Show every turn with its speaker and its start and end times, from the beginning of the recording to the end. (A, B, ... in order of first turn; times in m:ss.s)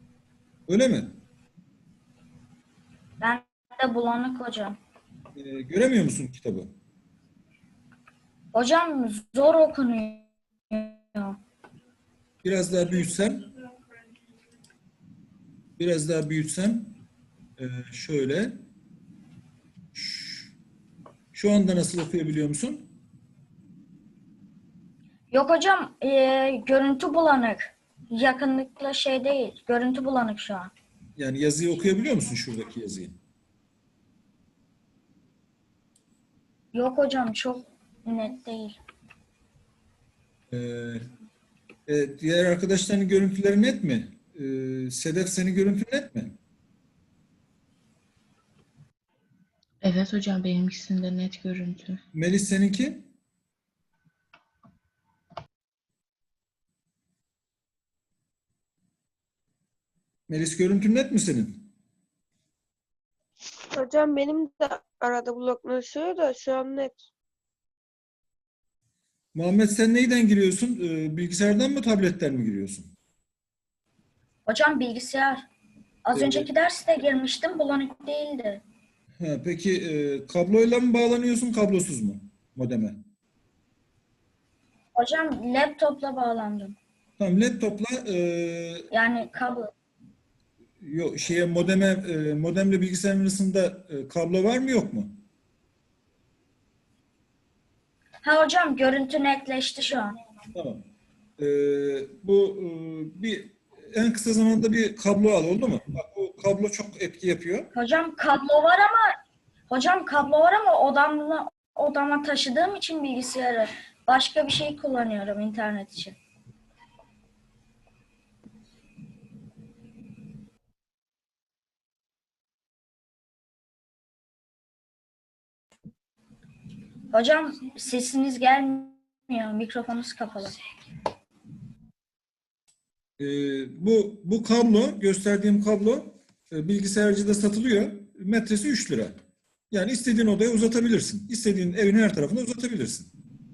0:00.7-0:01.1 A
0:03.2-0:04.8 B
0:05.4-0:06.7 A
0:08.5-0:11.4 B
0:12.4-0:13.5 A
0:15.8-0:17.0 A
0:17.6-0:18.6 A
0:19.9-0:20.5 A
0:21.3-0:22.9 A
0:25.3-0:30.7 B
0:31.2-0:33.2 A
0:36.7-0:38.8 B
0:40.5-0:41.0 A
0:41.9-0:46.4 A
0:49.8-0:52.0 C
0:52.1-0:53.1 A
1:00.3-1:01.7 A
1:03.7-1:07.1 D
1:09.3-1:12.9 A
1:14.4-1:15.5 B
1:16.0-1:18.6 B
1:16.1-1:16.5 A
1:19.2-1:23.0 A
1:24.9-1:26.8 B
1:27.2-1:28.9 A
1:28.9-1:29.7 B
1:30.8-1:35.2 A
1:38.2-1:40.2 B
1:40.5-1:40.8 A
1:41.4-1:47.7 A
1:47.7-1:49.2 B
1:49.7-1:56.2 B
2:07.1-2:10.6 B
2:13.2-2:19.2 A
2:19.7-2:23.1 A